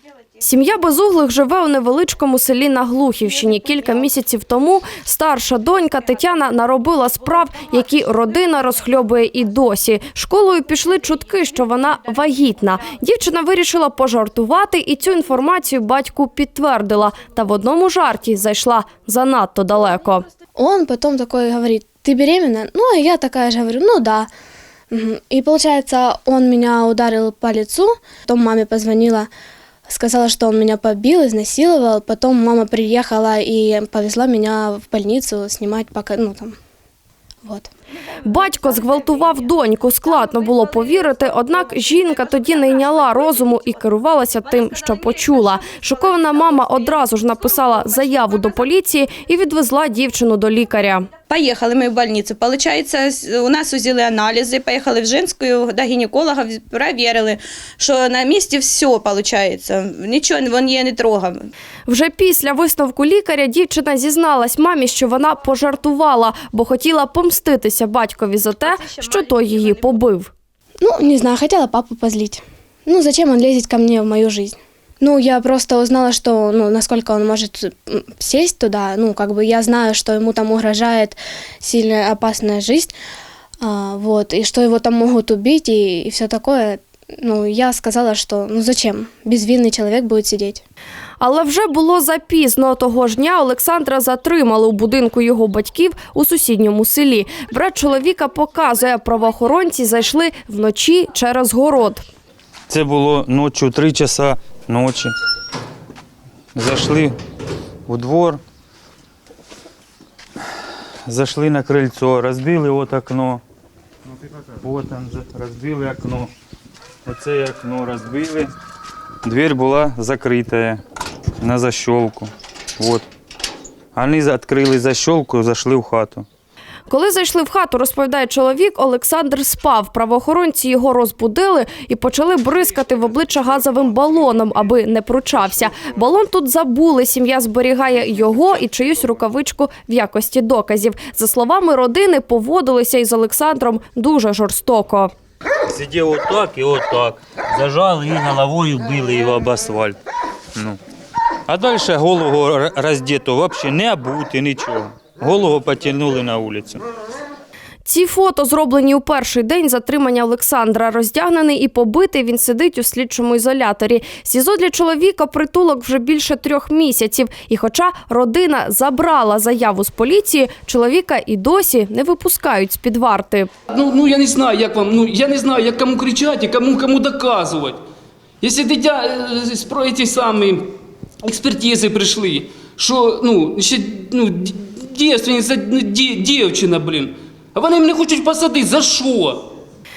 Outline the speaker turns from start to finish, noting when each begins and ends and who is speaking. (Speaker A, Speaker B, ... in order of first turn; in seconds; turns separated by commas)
Speaker A: 0.4-20.3, Speaker B: 20.6-24.3, Speaker B: 24.9-29.3, Speaker B: 29.9-36.5, Speaker B: 37.4-37.7, Speaker A: 38.2-51.1, Speaker C: 51.3-61.5, Speaker A: 61.9-70.3, Speaker B: 70.8-83.0, Speaker B: 83.6-90.6, Speaker A: 91.2-102.0, Speaker D: 102.7-105.1, Speaker D: 106.5-107.1, Speaker D: 107.9-108.4, Speaker D: 111.1-113.4, Speaker D: 114.6-116.3, Speaker D: 117.0-118.5, Speaker D: 119.2-120.8, Speaker D: 121.4-123.1, Speaker D: 123.9-126.2, Speaker A: 126.9-145.1, Speaker D: 145.7-150.0, Speaker D: 151.5-156.8, Speaker A: 157.8-173.5, Speaker E: 173.7-177.8, Speaker E: 178.4-189.5